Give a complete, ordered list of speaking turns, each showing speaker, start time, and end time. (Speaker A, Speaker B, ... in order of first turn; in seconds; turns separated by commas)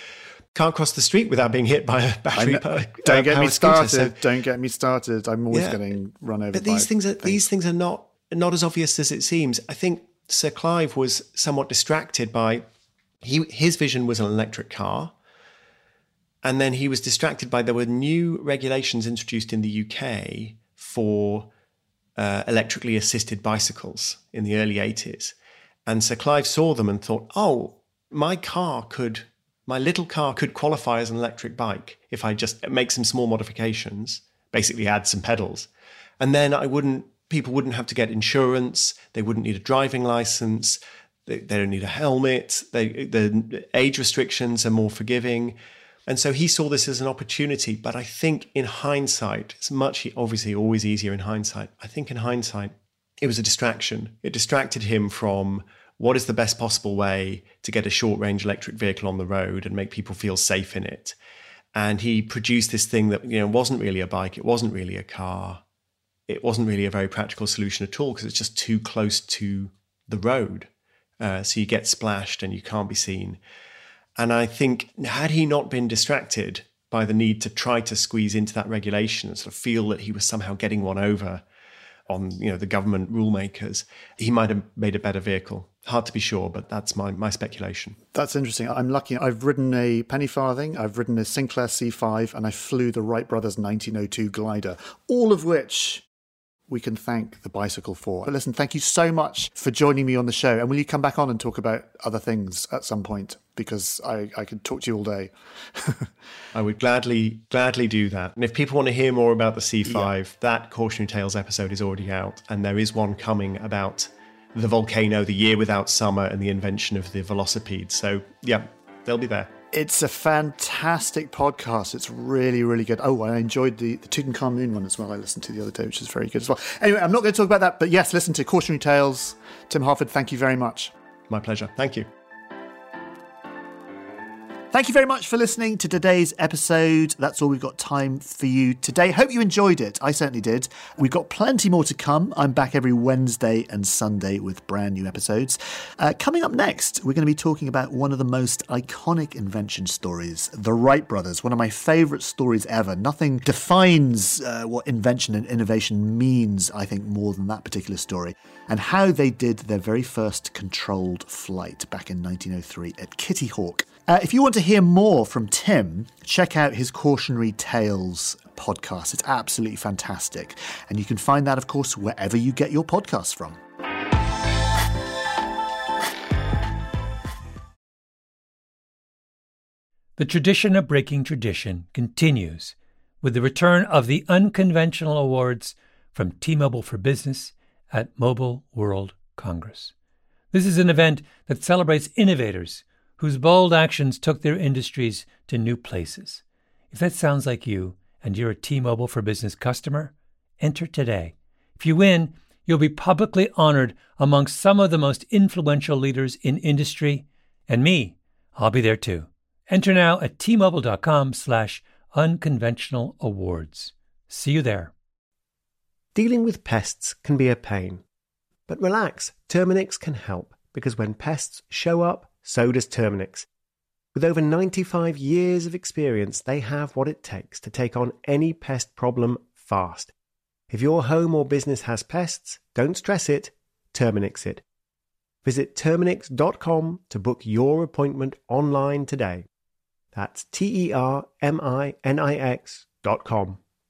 Speaker A: 0.5-4.2, Speaker B: 2.3-7.5, Speaker A: 5.5-5.8, Speaker A: 6.5-12.6, Speaker A: 13.2-15.1, Speaker A: 16.4-21.5, Speaker A: 22.2-25.3, Speaker A: 25.9-35.7, Speaker A: 36.2-45.5, Speaker A: 46.1-61.1, Speaker A: 61.7-65.6, Speaker A: 66.3-70.7, Speaker A: 71.2-73.4, Speaker A: 74.2-81.4, Speaker A: 82.1-88.0, Speaker B: 88.1-96.0, Speaker B: 96.7-106.1, Speaker A: 106.5-119.5, Speaker B: 109.8-110.1, Speaker B: 119.7-130.9, Speaker A: 131.3-132.1, Speaker B: 134.7-173.6, Speaker C: 180.2-189.9, Speaker C: 190.5-214.9, Speaker A: 216.1-218.0, Speaker A: 218.7-223.5, Speaker A: 224.1-230.1, Speaker A: 230.7-234.6, Speaker A: 235.4-239.4, Speaker A: 240.1-243.6